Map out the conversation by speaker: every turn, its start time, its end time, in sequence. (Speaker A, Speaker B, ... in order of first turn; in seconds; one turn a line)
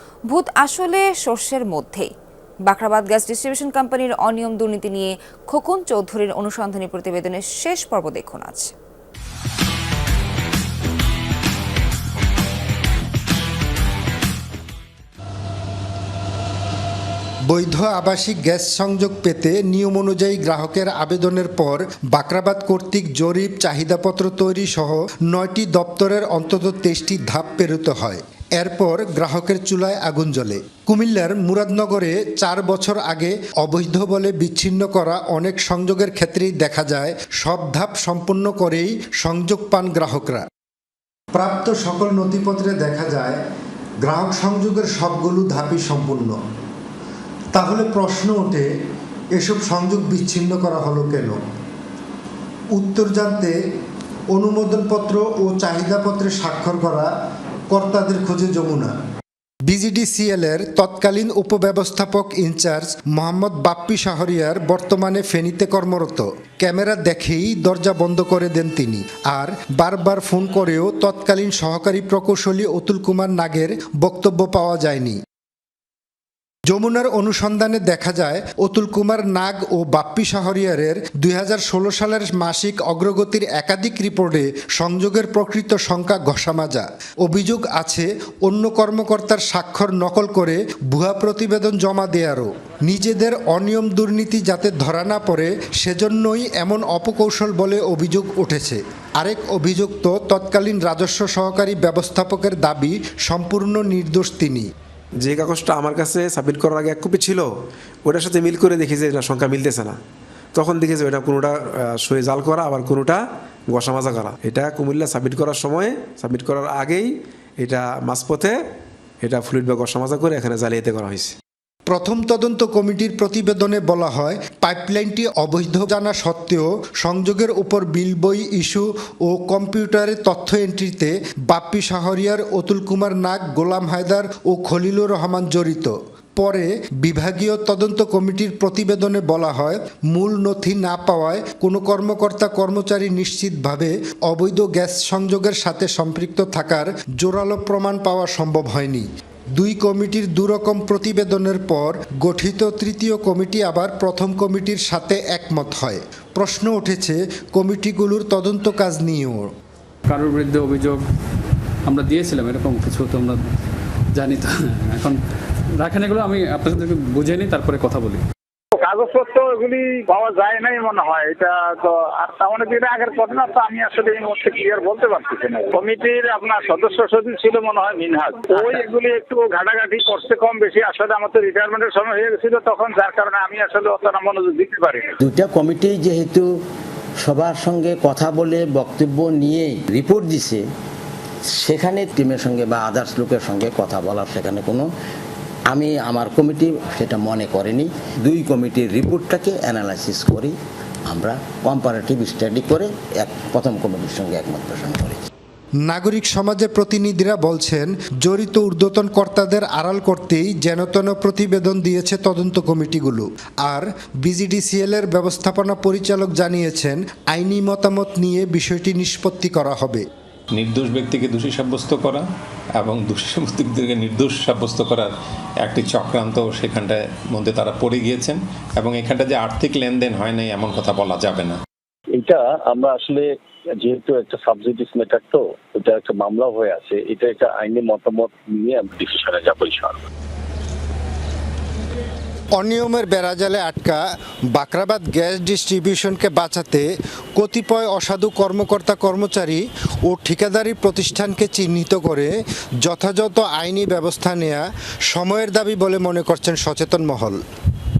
Speaker A: 0.3-2.1
Speaker A: 2.6-8.7
Speaker B: 17.5-40.5
Speaker B: 41.3-43.4
Speaker B: 44.0-46.4
Speaker B: 47.5-48.7
Speaker B: 49.3-51.4
Speaker B: 52.7-53.6
Speaker B: 54.3-57.1
Speaker B: 57.7-58.9
Speaker B: 59.7-75.2
Speaker B: 76.7-104.6
Speaker C: 105.2-107.5
Speaker C: 108.0-110.0
Speaker C: 110.5-118.6
Speaker C: 119.2-121.3
Speaker B: 121.9-159.5
Speaker D: 160.1-161.0
Speaker D: 161.9-163.4
Speaker D: 164.1-165.2
Speaker D: 165.8-168.2
Speaker E: 168.7-185.1
Speaker F: 185.3-186.5
Speaker F: 187.2-190.6
Speaker F: 191.5-194.8
Speaker F: 195.7-200.5
Speaker F: 201.1-205.2
Speaker B: 205.8-220.0
Speaker G: 220.5-222.2
Speaker G: 222.8-225.1
Speaker G: 225.6-231.6
Speaker H: 232.2-233.2
Speaker H: 233.8-239.9
Speaker B: 242.6-257.4